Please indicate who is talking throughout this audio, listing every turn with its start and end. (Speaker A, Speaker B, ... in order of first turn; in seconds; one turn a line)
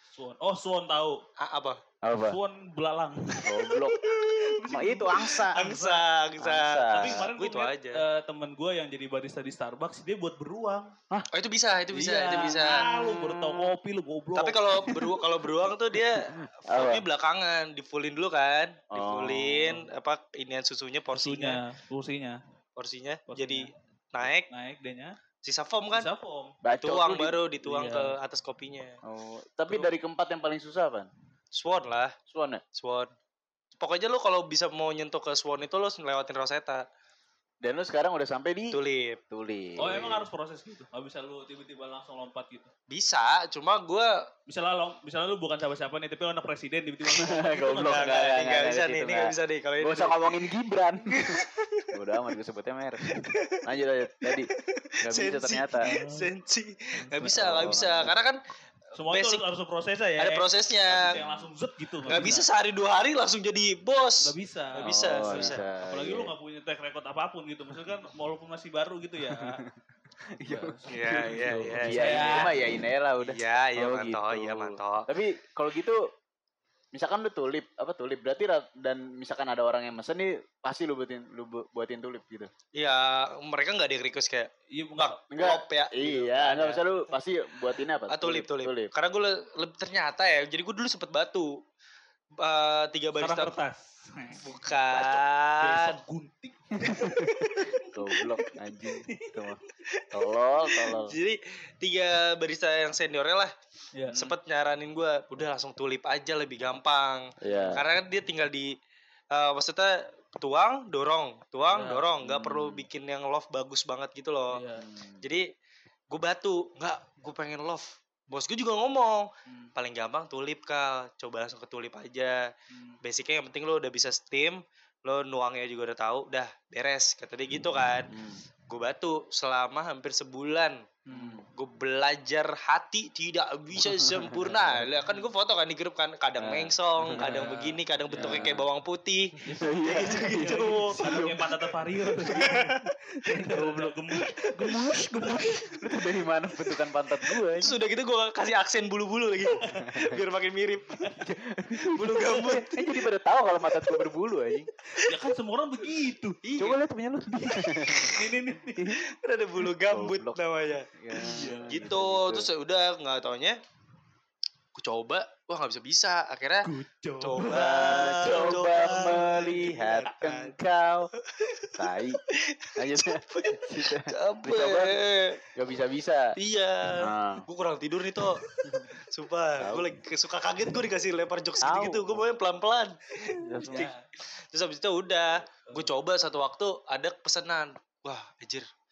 Speaker A: 0.1-1.2
Speaker B: 1.4-1.8
Speaker C: 2.0-2.4
Speaker A: 2.3-3.7
Speaker C: 3.4-4.0
Speaker B: 4.0-4.5
Speaker A: 4.3-6.0
Speaker C: 4.7-5.7
Speaker B: 5.2-8.0
Speaker C: 6.4-7.3
Speaker A: 6.9-10.9
Speaker B: 11.3-13.6
Speaker A: 11.9-15.0
Speaker B: 14.3-21.6
Speaker C: 16.0-17.0
Speaker C: 18.9-19.9
Speaker A: 21.1-22.4
Speaker B: 22.8-24.5
Speaker A: 23.3-23.7
Speaker A: 24.3-25.2
Speaker B: 25.4-26.1
Speaker A: 25.9-26.6
Speaker C: 26.6-27.4
Speaker B: 26.8-29.0
Speaker A: 27.6-28.2
Speaker C: 29.0-31.1
Speaker B: 31.5-32.1
Speaker C: 32.3-32.6
Speaker B: 32.7-33.1
Speaker B: 33.8-36.8
Speaker C: 37.6-38.8
Speaker B: 38.7-39.2
Speaker C: 39.3-40.2
Speaker A: 39.8-42.7
Speaker B: 42.9-44.3
Speaker A: 44.5-48.2
Speaker C: 47.1-54.5
Speaker B: 47.8-50.5
Speaker B: 51.2-51.9
Speaker B: 53.1-53.6
Speaker B: 54.3-58.4
Speaker C: 55.0-55.9
Speaker A: 55.8-56.3
Speaker A: 57.0-57.3
Speaker C: 57.3-58.1
Speaker A: 58.9-62.5
Speaker B: 59.1-59.4
Speaker B: 60.2-61.2
Speaker B: 62.1-65.6
Speaker A: 64.2-69.6
Speaker C: 64.8-66.3
Speaker C: 69.3-69.7
Speaker C: 70.3-76.1
Speaker A: 70.4-72.7
Speaker B: 70.9-72.5
Speaker B: 73.2-75.1
Speaker C: 76.9-82.5
Speaker B: 82.7-86.8
Speaker A: 84.7-85.2
Speaker C: 85.3-88.9
Speaker B: 88.1-91.6
Speaker B: 92.4-93.5
Speaker A: 93.2-97.9
Speaker B: 94.3-96.0
Speaker C: 96.8-97.3
Speaker C: 97.9-99.6
Speaker A: 98.9-99.5
Speaker C: 100.1-101.1
Speaker B: 100.7-103.5
Speaker A: 103.9-104.2
Speaker B: 104.1-108.7
Speaker C: 107.4-107.8
Speaker B: 109.3-114.6
Speaker A: 111.7-112.1
Speaker C: 112.2-112.9
Speaker A: 114.5-114.8
Speaker C: 114.7-115.2
Speaker B: 115.2-115.5
Speaker B: 116.1-122.5
Speaker A: 119.5-119.7
Speaker A: 122.7-123.0
Speaker B: 123.0-128.1
Speaker C: 128.1-128.4
Speaker B: 128.7-131.0
Speaker A: 131.1-131.4
Speaker C: 131.1-131.5
Speaker B: 131.5-141.0
Speaker C: 133.8-134.9
Speaker C: 136.4-137.4
Speaker A: 137.0-137.8
Speaker C: 138.1-138.7
Speaker C: 139.4-141.6
Speaker A: 139.5-146.0
Speaker C: 142.2-142.5
Speaker B: 142.3-142.9
Speaker C: 143.4-143.9
Speaker C: 144.7-147.7
Speaker B: 147.6-151.0
Speaker A: 149.5-149.9
Speaker A: 151.0-151.3
Speaker C: 151.1-154.7
Speaker B: 151.9-152.8
Speaker A: 155.0-156.4
Speaker B: 156.4-156.8
Speaker C: 156.6-158.2
Speaker A: 157.6-158.9
Speaker B: 159.2-163.6
Speaker C: 159.8-160.4
Speaker C: 160.9-162.5
Speaker A: 161.2-161.8
Speaker B: 164.7-170.6
Speaker A: 166.6-169.2
Speaker C: 167.4-171.1
Speaker B: 171.3-171.7
Speaker C: 171.8-172.2
Speaker B: 172.3-175.4
Speaker C: 172.8-176.3
Speaker B: 176.3-178.4
Speaker C: 177.0-177.4
Speaker C: 178.6-178.9
Speaker B: 178.9-183.0
Speaker C: 179.6-179.9
Speaker C: 181.6-182.2
Speaker C: 183.4-183.9
Speaker B: 183.6-183.9
Speaker A: 183.6-184.0
Speaker B: 184.5-188.7